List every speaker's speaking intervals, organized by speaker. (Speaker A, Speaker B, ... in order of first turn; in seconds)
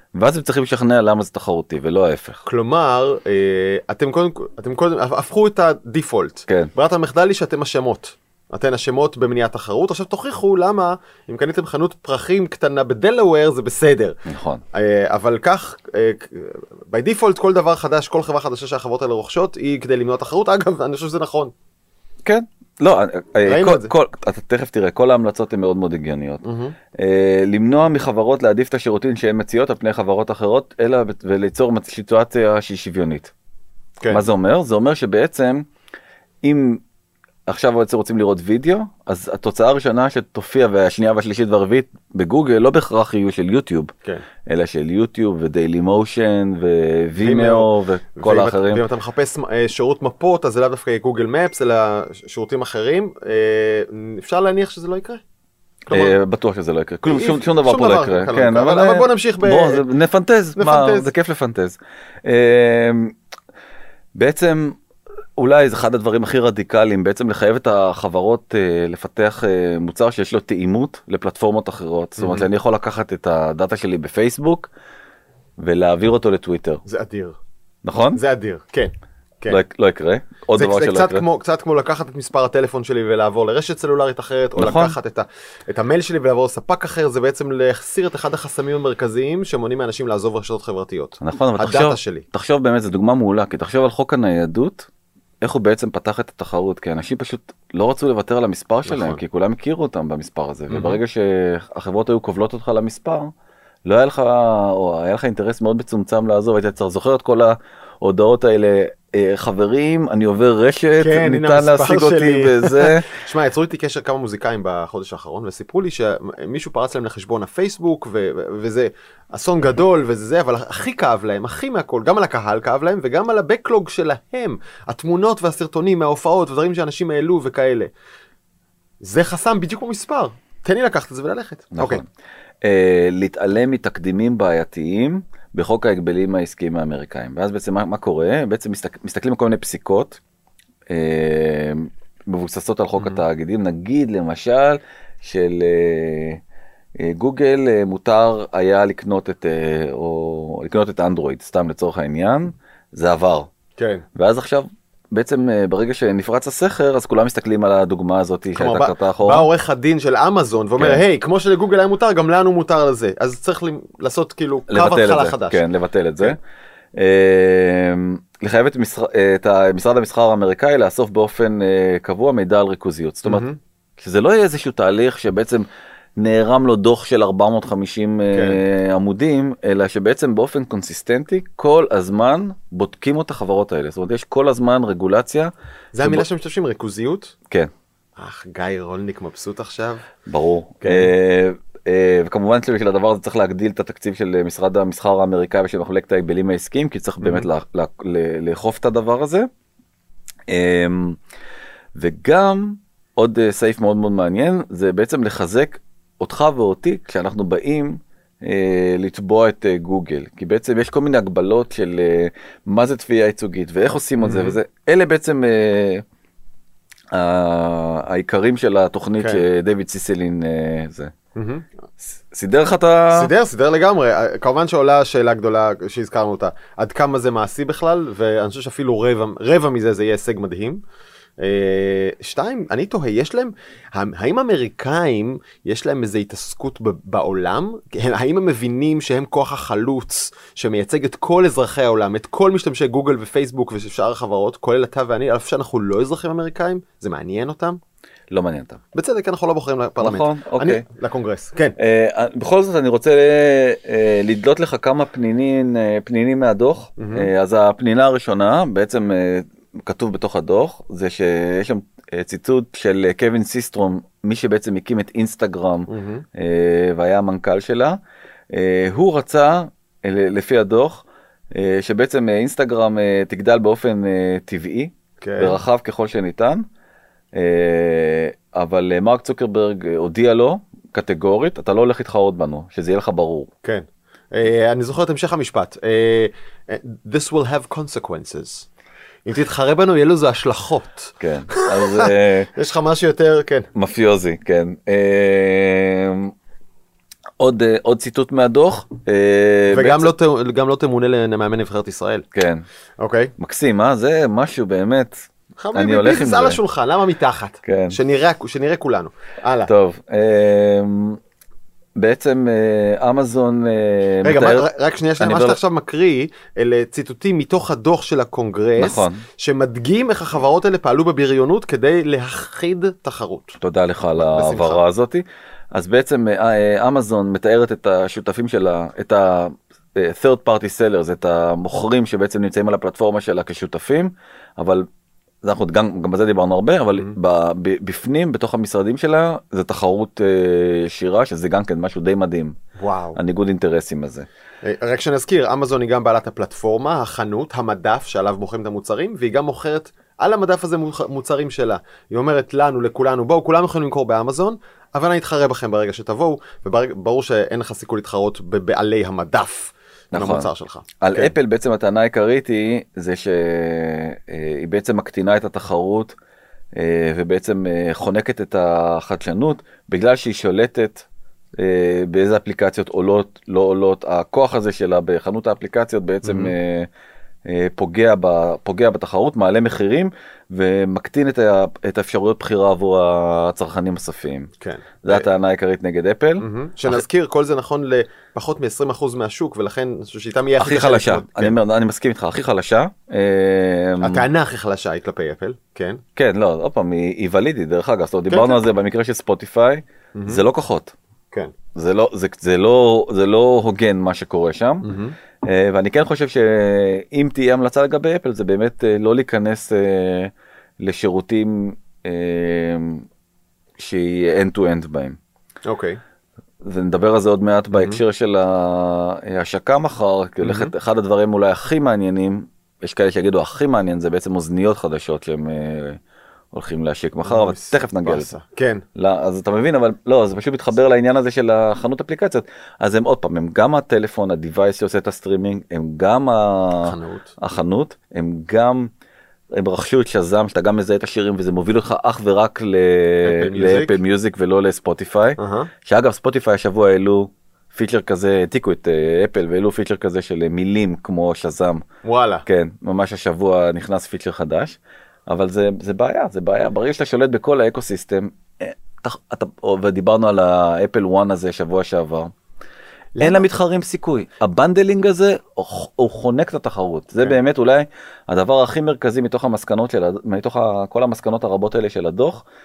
Speaker A: 0.1-2.4, 14.2-14.6, 22.2-33.3, 34.1-35.6, 36.4-36.8, 37.5-43.9, 44.5-48.8, 55.9-63.1, 64.1-64.8, 65.4-74.7, 75.6-76.8, 77.8-78.2, 79.5-81.2, 84.6-85.0, 91.2-94.9, 95.4-103.3, 103.8-113.1, 131.7-132.1, 132.6-140.2, 140.9-146.4, 147.0-153.5, 154.2-159.5, 164.7-166.4, 166.9-173.4, 174.0-175.7, 176.2-186.2, 190.3-199.5, 200.5-201.2, 201.9-216.0, 217.1-221.1, 222.0-223.3, 248.3-248.8, 250.0-250.8, 251.8-268.0, 268.5-276.6, 277.3-283.5, 291.2-292.5, 293.7-296.3, 297.4-300.1, 302.3-302.6, 303.4-305.1, 305.7-306.6, 307.6-308.0, 309.7-311.2, 312.0-314.6, 315.2-315.6, 318.8-319.2, 323.6-334.9, 335.4-342.5, 343.1-344.3, 360.1-360.5, 361.0-366.1, 366.7-371.1, 371.6-376.9, 377.4-384.5, 385.0-387.0, 390.6-394.2, 396.1-400.9, 401.7-404.9, 405.4-413.1, 413.8-415.2, 416.6-426.0, 426.5-428.3, 428.9-438.9, 439.5-451.8, 452.4-454.8, 455.3-462.3, 463.2-472.4
Speaker B: 2.5-14.2, 14.7-21.5, 23.4-23.9, 26.4-26.8, 47.2-55.2, 55.9-56.1, 57.0-59.8, 60.5-61.1, 72.2-72.5, 76.8-77.4, 78.1-79.6, 80.5-92.2, 98.9-99.2, 100.7-101.0, 111.0-127.9, 129.0-132.0, 153.8-154.0, 158.6-165.6, 173.2-173.6, 178.3-178.6, 185.9-187.3, 188.2-190.1, 190.8-191.1, 197.2-197.5, 214.2-214.6, 219.2-219.4, 221.3-221.7, 223.1-230.8, 231.4-247.8, 248.9-251.8, 257.0-257.3, 265.9-266.2, 275.2-275.6, 283.6-288.7, 289.2-293.7, 299.7-302.2, 303.0-303.3, 305.6-309.7, 314.2-323.6, 324.2-324.8, 342.8-343.2, 344.6-361.3, 376.2-376.5, 384.6-385.2, 386.4-391.5, 394.0-396.0, 398.3-398.6, 400.1-400.4, 404.8-405.1, 415.6-416.0, 417.7-418.0, 420.4-420.7, 427.2-428.8, 436.8-437.3, 443.2-444.0, 445.4-445.7, 452.0-452.4, 463.1-463.4